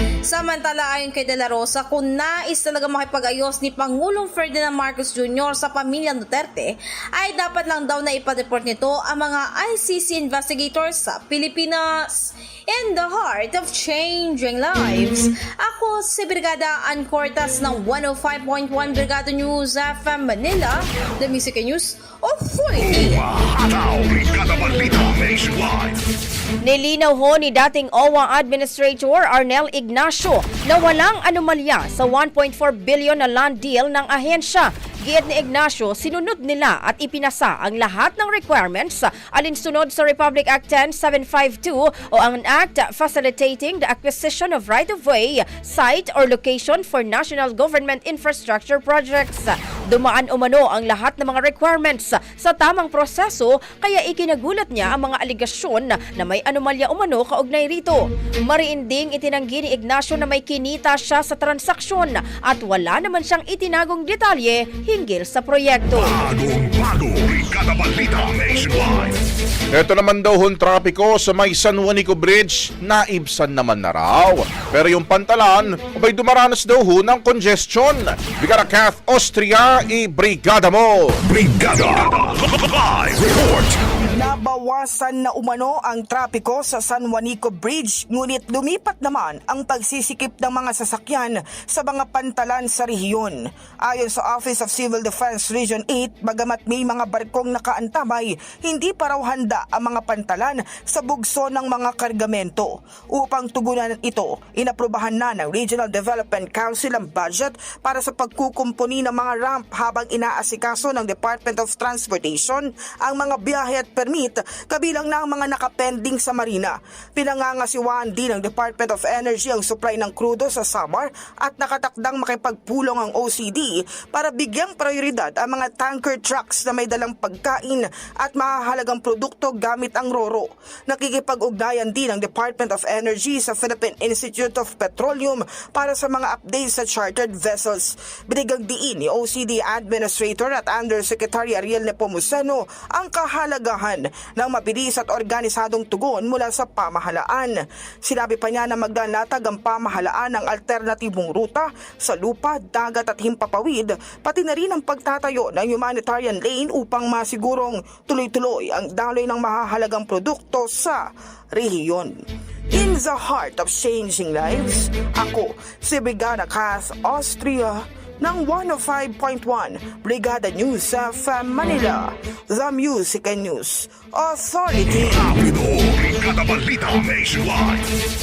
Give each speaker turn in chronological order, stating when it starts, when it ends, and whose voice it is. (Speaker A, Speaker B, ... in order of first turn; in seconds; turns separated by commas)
Speaker A: 0.3-23.2, Speaker B: 22.8-26.0, Speaker C: 26.6-66.2, Speaker B: 65.9-69.2, Speaker D: 69.7-81.2, Speaker B: 81.2-83.8, Speaker E: 84.2-175.4, Speaker B: 174.9-177.9